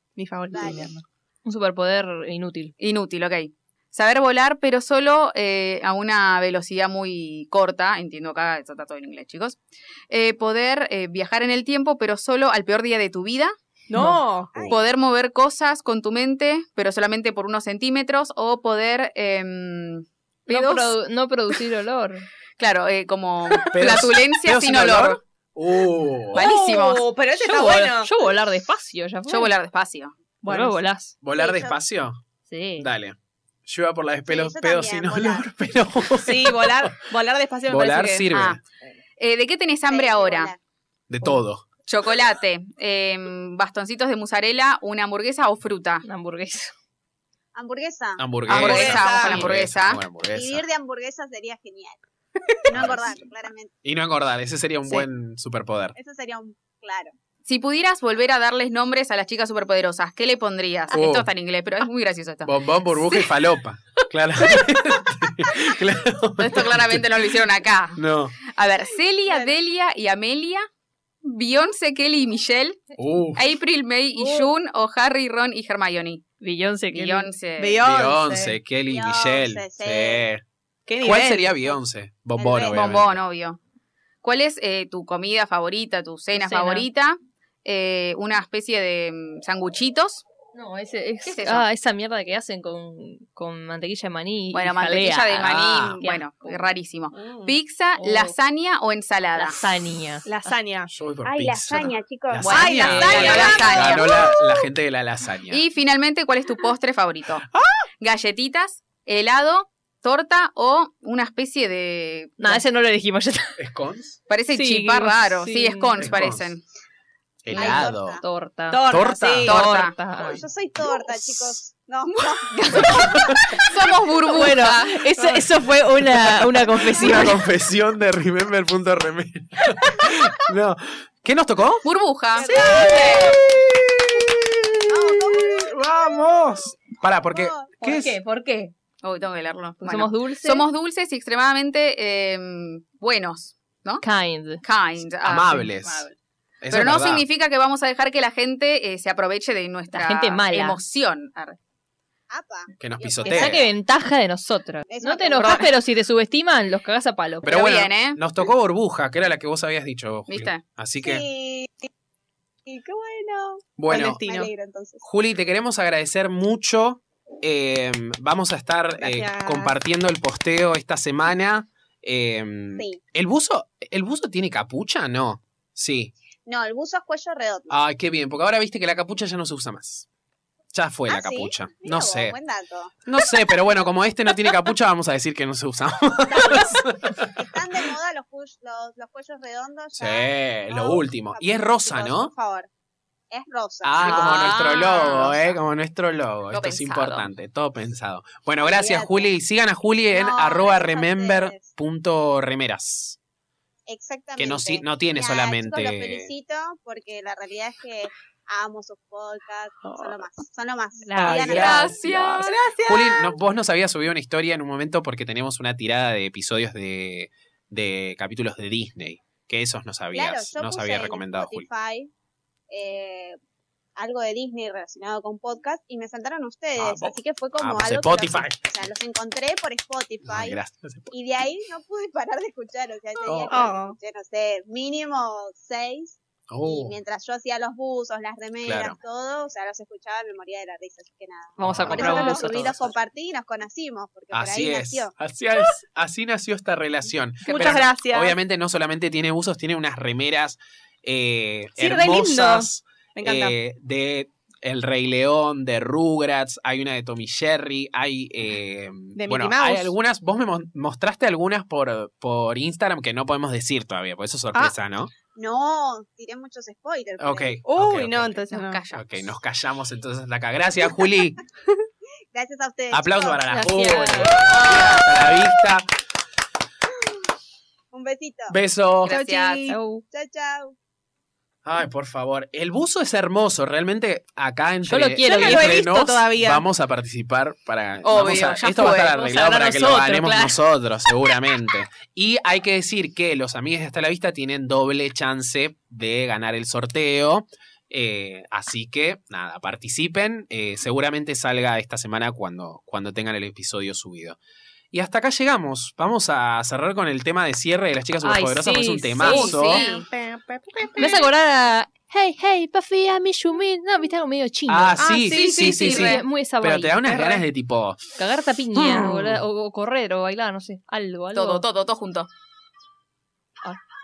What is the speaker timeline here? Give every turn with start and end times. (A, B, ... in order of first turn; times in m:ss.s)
0:00.2-0:01.0 A
0:00.5-0:01.0 B
0:01.5-0:02.7 C
0:02.8-0:09.6 D
0:10.1-0:13.5 D
0:13.9-0:14.5 A
0:14.5-0:14.8 B
0:14.7-0:20.1 D
0:20.5-0:20.9 A
0:20.5-0:22.3 C
0:22.6-0:25.2 D
0:23.7-0:26.4 E
0:26.3-0:27.1 D
0:26.3-0:28.1 A
0:27.4-0:29.5 C
0:29.3-0:30.1 D
0:30.4-0:30.8 A
0:30.4-0:31.2 C
0:31.2-0:32.2 E
0:31.3-0:31.8 B
0:32.5-0:32.9 C
0:32.8-0:37.1 E
0:34.3-0:35.5 B
0:36.2-0:38.3 A
0:37.7-0:38.6 E
0:38.3-0:38.6 D
0:39.2-0:40.5 D
0:39.9-0:40.6 B
0:41.1-0:41.6 E
0:41.9-0:46.0 D
0:46.0-0:46.7 C
0:47.6-0:48.3 B
0:48.2-0:50.6 E
0:48.5-0:50.0 D
0:48.5-0:49.5 A
0:50.3-0:52.0 B
0:52.6-0:53.7 B
0:52.7-0:53.3 E
0:53.8-0:56.0 E
0:56.0-0:57.1 B
0:57.5-1:02.5 D
1:00.9-1:01.3 E
1:02.4-1:07.1 E
1:06.4-1:10.6 D
1:08.0-1:08.4 E
1:09.3-1:09.6 B
1:11.2-1:12.8 D
1:13.0-1:13.4 E
1:13.4-1:16.2 D
1:14.2-1:14.5 A
1:16.4-1:17.3 C
1:16.9-1:17.9 D
1:17.6-1:18.6 A
1:17.8-1:20.4 E
1:18.9-1:20.2 B
1:20.9-1:21.5 A
1:21.0-1:23.2 E
1:22.4-1:22.8 B
1:22.7-1:23.6 D
1:24.2-1:30.2 D
1:26.3-1:26.9 C
1:30.5-1:35.5 C
1:31.2-1:31.6 D
1:34.5-1:39.6 D
1:35.4-1:36.0 E
1:36.0-1:36.7 C
1:37.2-1:37.5 A
1:38.0-1:38.3 C
1:39.4-1:40.3 C
1:40.2-1:40.9 A
1:40.9-1:45.6 E
1:41.2-1:43.2 B
1:42.4-1:44.2 D
1:42.5-1:44.0 A
1:42.9-1:43.6 C
1:45.5-1:47.5 D
1:47.5-1:47.9 E
1:48.0-1:52.6 D
1:52.4-1:53.6 C
1:53.6-1:54.2 E
1:54.3-1:56.6 D
1:54.5-1:55.9 C
1:56.0-1:56.5 E
1:57.4-1:58.2 E
1:57.5-1:57.8 D
1:57.5-1:58.2 B
1:58.2-1:58.8 C
1:58.7-1:59.6 A
1:58.9-1:59.6 E
1:59.4-2:00.0 D
1:59.4-2:00.4 C
2:00.2-2:03.2 B
2:00.8-2:01.5 E
2:02.8-2:03.7 E
2:03.6-2:05.0 D
2:04.3-2:07.4 C
2:06.9-2:11.8 E
2:11.8-2:13.4 D
2:12.4-2:13.2 A
2:12.4-2:13.4 B
2:12.6-2:18.2 E
2:14.9-2:16.0 B
2:17.3-2:17.7 B
2:17.8-2:18.7 C
2:19.0-2:24.0 D
2:19.8-2:20.6 C
2:24.0-2:24.6 C
2:24.6-2:25.7 D
2:25.0-2:26.1 E
2:25.7-2:26.2 C
2:26.6-2:27.2 E
2:26.7-2:31.6 D
2:29.9-2:30.8 C
2:32.3-2:33.7 B
2:32.8-2:33.7 E
2:33.2-2:37.5 C
2:34.9-2:35.7 B
2:37.4-2:41.2 E
2:37.5-2:38.2 D
2:40.3-2:40.6 D
2:41.0-2:41.9 B
2:42.7-2:45.0 B
2:43.8-2:44.2 E
2:43.9-2:44.5 A
2:45.0-2:56.1 E
2:49.0-2:49.7 A
2:56.5-2:57.8 B
2:57.7-3:00.1 E
3:00.7-3:02.4 E
3:01.1-3:02.9 B
3:03.1-3:07.3 E
3:06.3-3:12.7 B
3:10.0-3:12.3 E
3:13.3-3:15.6 B
3:13.8-3:23.2 E
3:14.0-3:15.4 D
3:16.5-3:17.3 D
3:18.6-3:19.3 B
3:20.1-3:21.7 B
3:23.9-3:32.0 B
3:24.4-3:26.3 E
3:29.8-3:30.2 A
3:31.0-3:32.0 C
3:31.2-3:41.7 E
3:31.4-3:32.6 D
3:32.4-3:33.4 A
3:40.1-3:42.1 B
3:42.7-3:43.4 B
3:44.0-3:50.6 B
3:46.8-3:48.7 E
3:50.2-3:51.1 E
3:51.1-4:05.1 B
3:53.2-3:53.6 E
3:53.5-3:54.0 A
3:56.5-3:57.0 E
3:58.6-3:59.0 E
4:01.6-4:02.9 C
4:01.6-4:02.9 E
4:04.3-4:25.1 E
4:07.4-4:07.8 D
4:07.5-4:08.4 A
4:11.8-4:13.6 A
4:19.2-4:19.9 A
4:25.3-4:27.6 B
4:27.2-4:31.4 E
4:27.6-4:28.8 A
4:28.5-4:29.3 D
4:32.3-4:33.7 B
4:32.9-4:35.9 E
4:33.5-4:34.5 C
4:34.3-4:35.0 A
4:37.9-4:38.6 B
4:38.5-4:39.2 E
4:39.0-4:39.8 D
4:39.1-4:39.8 A
4:39.7-4:40.0 C
4:40.1-4:40.8 B
4:41.6-5:04.4 E
4:44.8-4:45.8 C
4:45.2-4:46.6 A
4:48.0-4:49.2 D
4:48.8-4:50.6 C
5:04.9-5:09.8 E
5:08.2-5:09.6 C
5:09.2-5:10.1 D
5:09.6-5:11.3 A
5:11.0-5:17.4 C
5:14.7-5:18.0 E
5:15.0-5:15.8 A
5:15.3-5:16.2 D
5:18.2-5:21.6 C
5:18.8-5:19.4 E
5:21.3-5:22.3 D